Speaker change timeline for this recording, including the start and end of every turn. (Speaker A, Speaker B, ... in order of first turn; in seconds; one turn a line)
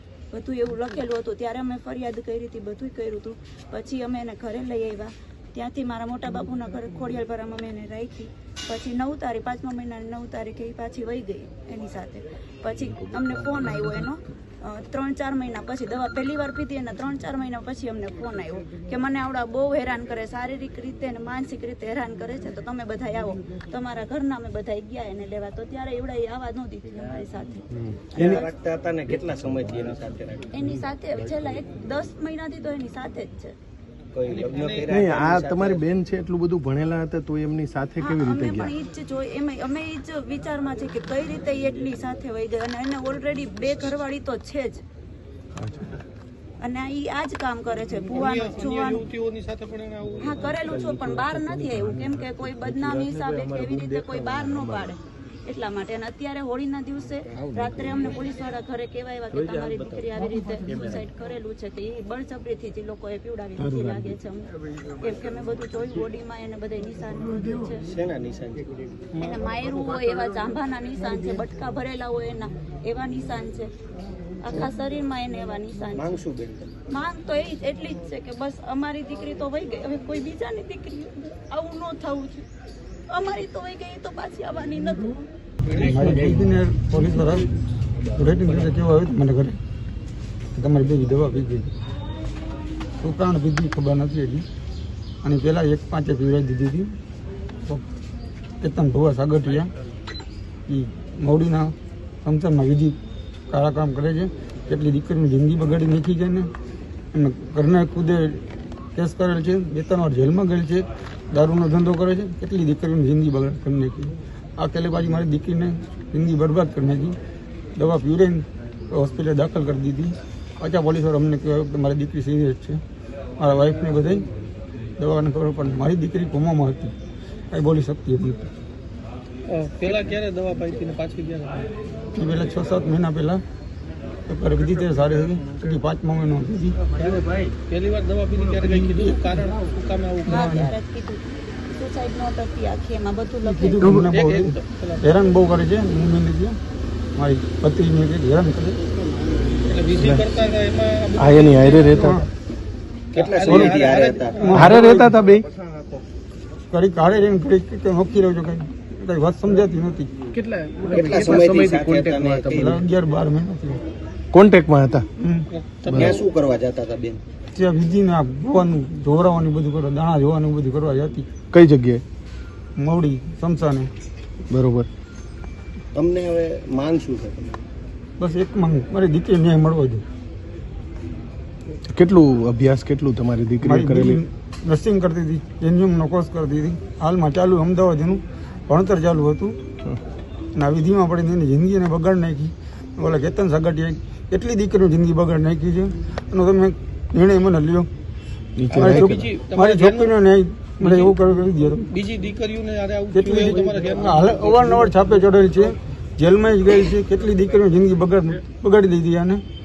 Speaker A: 0.3-28.5
Speaker B: 28.1-30.5
Speaker A: 30.5-33.5
Speaker B: 34.1-35.8
Speaker C: 34.2-34.9
Speaker D: 34.9-38.7
Speaker A: 38.0-44.8
Speaker D: 45.6-45.9
Speaker A: 46.6-49.0
Speaker C: 48.1-50.6
Speaker A: 50.2-67.9
Speaker D: 63.7-64.0
Speaker B: 67.9-68.8
Speaker A: 69.1-73.7
Speaker A: 74.4-76.2
Speaker B: 75.9-76.7
Speaker A: 76.9-82.4
Speaker A: 83.1-85.3
Speaker C: 85.7-86.2
Speaker E: 85.7-87.5
Speaker E: 88.1-89.6
Speaker E: 90.5-91.7
Speaker E: 93.0-94.4
Speaker E: 95.2-96.9
Speaker E: 98.6-99.7
Speaker E: 100.7-103.0
Speaker E: 103.5-106.5
Speaker E: 107.1-117.2
Speaker E: 117.8-122.8
Speaker E: 123.4-124.2
Speaker E: 125.0-126.9
Speaker E: 127.5-128.5
Speaker C: 129.5-131.7
Speaker E: 132.1-133.4
Speaker E: 134.3-136.8
Speaker C: 136.9-140.5
Speaker E: 138.6-139.5
Speaker E: 140.3-140.7
Speaker A: 140.3-144.0
Speaker E: 143.4-146.6
Speaker D: 143.8-144.1
Speaker C: 144.1-145.2
Speaker E: 147.1-148.8
Speaker C: 149.6-152.2
Speaker D: 149.9-150.2
Speaker D: 151.2-152.1
Speaker E: 151.8-152.3
Speaker C: 153.1-155.1
Speaker B: 153.1-155.0
Speaker D: 153.4-153.8
Speaker E: 154.4-154.9
Speaker D: 154.5-155.5
Speaker E: 156.7-160.1
Speaker D: 160.4-162.7
Speaker B: 160.9-162.8
Speaker E: 162.5-163.8
Speaker D: 164.3-165.1
Speaker E: 165.2-165.5
Speaker C: 165.5-166.3
Speaker B: 165.9-167.2
Speaker E: 167.5-171.3
Speaker D: 171.5-172.0
Speaker E: 172.8-173.9
Speaker D: 174.5-174.9
Speaker B: 175.9-177.6
Speaker E: 178.2-180.0
Speaker D: 181.9-184.2
Speaker E: 183.6-189.6
Speaker E: 190.5-197.9
Speaker D: 198.6-199.2
Speaker C: 198.7-200.1
Speaker E: 198.7-201.9
Speaker C: 200.8-201.2
Speaker C: 201.8-204.8
Speaker E: 203.1-209.4